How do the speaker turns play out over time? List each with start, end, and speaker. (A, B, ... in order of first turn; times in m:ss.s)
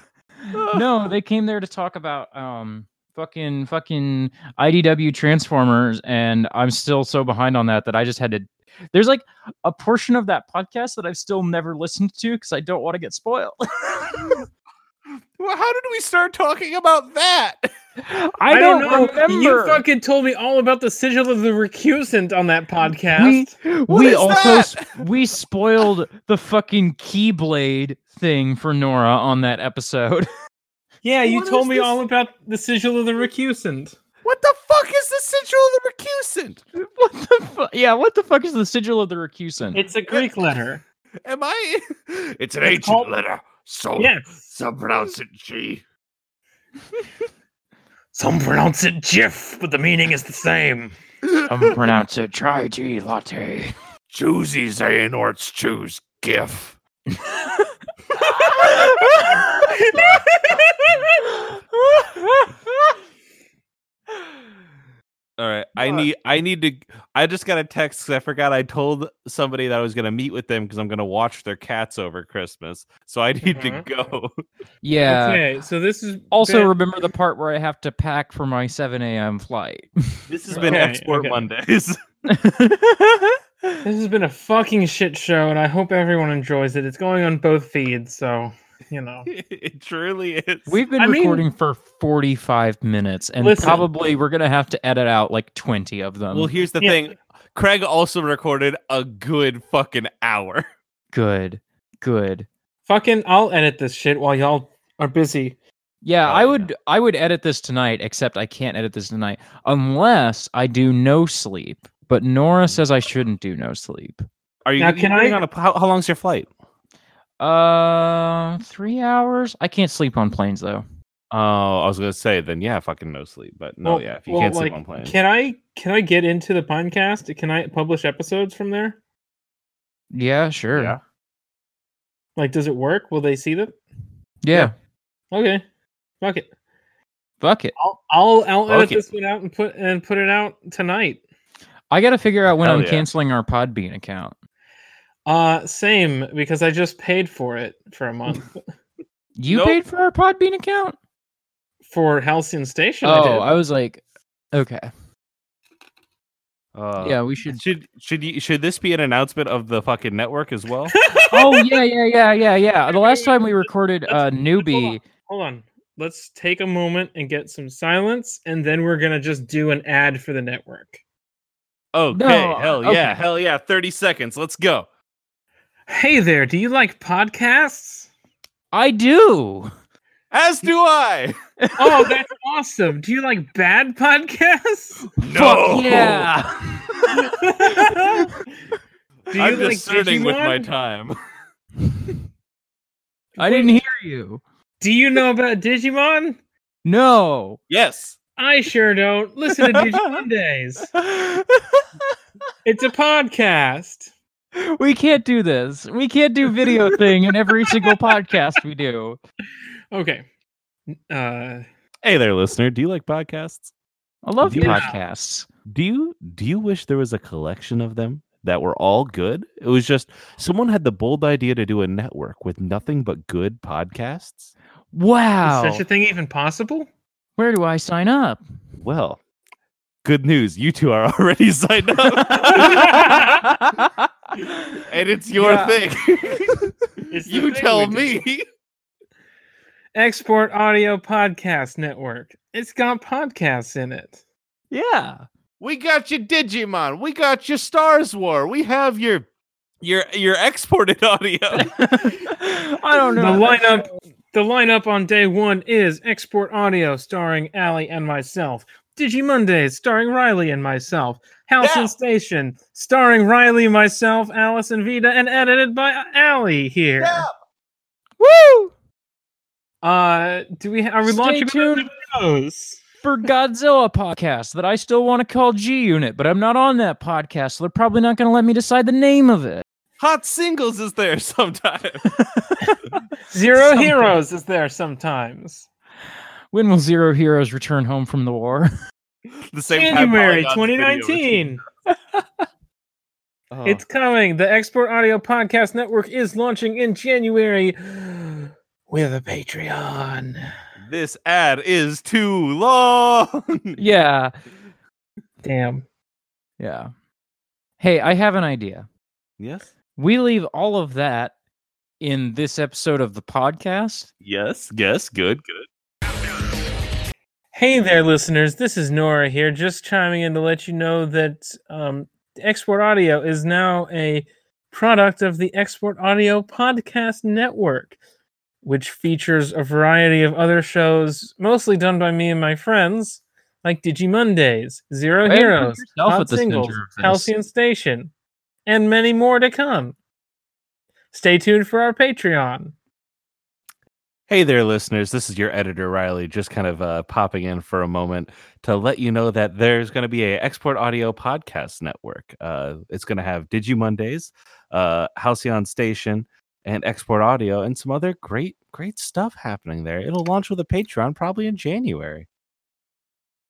0:00.5-0:00.8 A
0:00.7-0:14.4 B
0:15.4-0:17.7 A
0:18.0-0:19.8 B
0:18.5-0:23.5 C
0:23.2-0:30.3 B
0:23.9-0:25.1 A
0:31.0-0:34.0 C
0:31.2-0:31.9 B
0:34.2-0:36.6 A
0:36.8-0:39.8 B
0:39.7-0:40.8 C
0:41.2-0:45.8 A
0:42.6-0:43.1 C
0:44.0-0:44.5 C
0:48.1-0:51.0 C
0:51.3-0:51.8 A
0:51.5-0:53.7 B
0:54.1-0:56.8 A
0:57.2-0:59.4 B
0:58.3-0:59.0 C
0:59.6-1:01.2 C
1:01.2-1:02.5 B
1:05.4-1:14.3 A
1:05.8-1:06.1 C
1:13.4-1:13.9 C
1:14.8-1:15.4 B
1:15.0-1:16.7 C
1:16.3-1:20.2 B
1:20.3-1:22.0 A
1:20.5-1:21.4 C
1:22.3-1:23.8 B
1:23.8-1:29.3 C
1:29.3-1:30.8 A
1:30.7-1:36.5 B
1:31.0-1:31.5 C
1:33.4-1:33.8 C
1:36.3-1:40.6 A
1:41.1-1:42.5 B
1:42.9-1:45.6 C
1:46.0-1:54.2 B
1:46.2-1:46.7 A
1:54.6-1:56.5 A
1:54.8-1:55.4 C
1:57.4-2:00.8 B
2:01.3-2:05.1 A
2:03.8-2:09.0 C
2:10.1-2:11.0 B
2:10.8-2:11.0 A
2:12.4-2:13.8 C
2:14.4-2:14.7 B
2:15.3-2:15.6 C
2:16.2-2:16.5 C
2:17.4-2:17.7 B
2:17.8-2:21.2 C
2:18.7-2:19.0 A
2:21.9-2:24.4 B
2:22.6-2:23.1 A
2:25.3-2:28.6 C
2:29.4-2:31.0 B
2:29.5-2:29.8 A
2:31.9-2:33.5 C
2:33.0-2:34.0 B
2:34.5-2:34.9 B
2:36.8-2:41.0 A
2:37.0-2:37.6 B
2:40.9-2:41.8 C
2:41.3-2:45.0 B
2:42.9-2:43.6 C
2:44.1-2:51.0 C
2:51.9-2:54.9 A
2:52.1-2:53.2 B
2:55.9-2:58.1 C
2:58.7-2:59.7 B
3:00.3-3:01.4 A
3:01.6-3:02.1 B
3:01.8-3:05.1 C
3:05.2-3:06.3 A
3:05.2-3:08.3 B
3:07.3-3:08.3 C
3:09.3-3:10.7 C
3:09.4-3:11.2 A
3:13.4-3:13.8 C
3:13.4-3:14.4 B
3:14.8-3:16.4 C
3:16.8-3:17.6 B
3:17.7-3:18.2 A
3:18.4-3:20.9 C
3:21.0-3:21.8 B
3:22.6-3:24.1 C
3:24.6-3:29.2 B
3:29.9-3:30.3 C
3:30.9-3:31.6 C
3:32.0-3:33.7 A
3:34.2-3:35.5 B
3:34.4-3:34.9 A
3:34.6-3:35.0 C
3:35.7-3:44.5 A
3:44.9-3:45.8 B
3:45.4-3:46.9 C
3:47.4-3:48.4 B
3:48.8-3:49.2 A
3:50.0-3:53.3 A
3:52.2-3:54.8 B
3:52.3-3:53.4 C
3:54.7-3:58.4 A
3:55.4-3:55.8 B
3:57.1-3:58.2 C
4:00.0-4:04.2 C
4:04.7-4:05.2 B
4:05.6-4:09.3 A
4:09.8-4:12.1 A
4:11.5-4:13.8 B
4:13.2-4:27.3 C
4:21.6-4:22.0 A
4:27.0-4:27.3 A
4:28.2-4:28.7 B
4:29.8-4:32.8 C
4:31.0-4:31.9 B
4:33.0-4:39.6 B
4:40.0-4:42.1 A
4:43.3-4:45.7 C
4:43.6-4:44.2 B
4:46.5-4:48.7 B
4:49.5-4:51.5 A
4:49.7-4:51.6 C
4:53.5-4:53.8 A
4:53.6-5:00.5 C
5:00.8-5:03.8 A
5:03.8-5:04.3 B
5:05.4-5:05.8 C
5:06.6-5:06.9 B
5:07.8-5:08.9 B
5:09.4-5:09.7 A
5:10.0-5:11.3 B
5:12.0-5:14.1 B
5:14.2-5:15.7 A
5:17.5-5:28.0 C
5:28.6-5:38.1 C
5:35.2-5:37.3 B
5:38.7-5:40.0 C
5:41.1-5:42.8 C
5:44.3-6:02.3 A